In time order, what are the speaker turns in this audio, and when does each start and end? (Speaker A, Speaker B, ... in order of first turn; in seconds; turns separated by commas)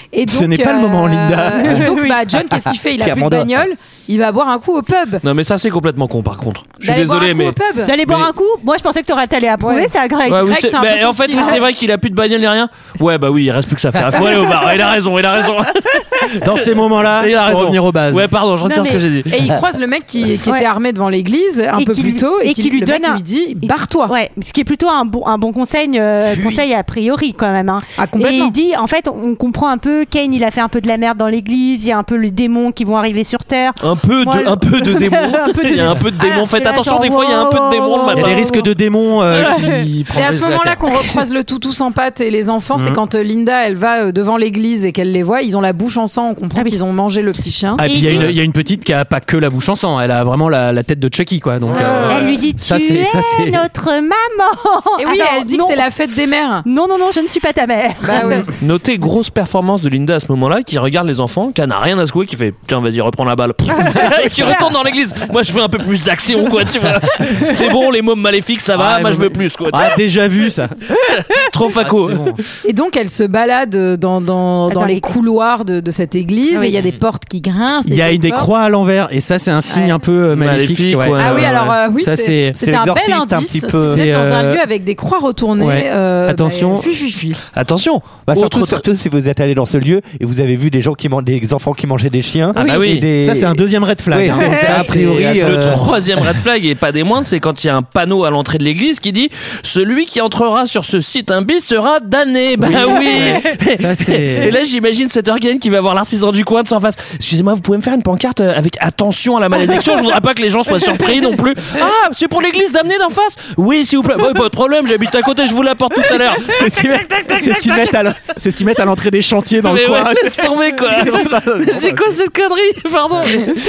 Speaker A: 0.1-5.2, Speaker B: 0.2-1.9, Speaker C: 1.6-2.2, Speaker D: 2.5-3.7, Speaker E: 5.2-8.3, Speaker A: 6.8-7.9, Speaker C: 7.8-10.6, Speaker A: 9.6-9.9, Speaker E: 10.3-19.3, Speaker A: 10.4-11.6, Speaker B: 16.4-18.3, Speaker C: 18.6-19.0, Speaker A: 19.3-24.1, Speaker C: 21.8-38.7, Speaker B: 26.3-26.6, Speaker A: 28.0-28.6, Speaker E: 33.8-38.6, Speaker B: 38.1-40.8, Speaker C: 39.3-39.9, Speaker A: 40.1-47.9, Speaker B: 42.7-43.0, Speaker B: 47.8-53.6, Speaker C: 47.8-48.4, Speaker C: 51.7-55.9, Speaker A: 51.8-52.2, Speaker A: 55.0-56.7, Speaker C: 56.6-58.5, Speaker A: 58.0-58.5, Speaker E: 58.6-70.0, Speaker B: 68.8-70.8, Speaker E: 71.1-72.4, Speaker B: 71.8-72.4, Speaker A: 72.6-78.5, Speaker C: 74.7-75.2, Speaker C: 76.5-76.8, Speaker B: 77.8-82.6, Speaker E: 80.3-81.8, Speaker A: 81.2-87.4, Speaker D: 82.6-84.1, Speaker B: 83.8-84.6, Speaker B: 85.6-87.0, Speaker E: 87.5-88.8, Speaker D: 88.3-95.9, Speaker E: 92.6-93.1, Speaker B: 92.6-95.9, Speaker E: 95.3-118.1, Speaker B: 102.6-104.5, Speaker B: 116.4-122.1, Speaker E: 119.6-123.6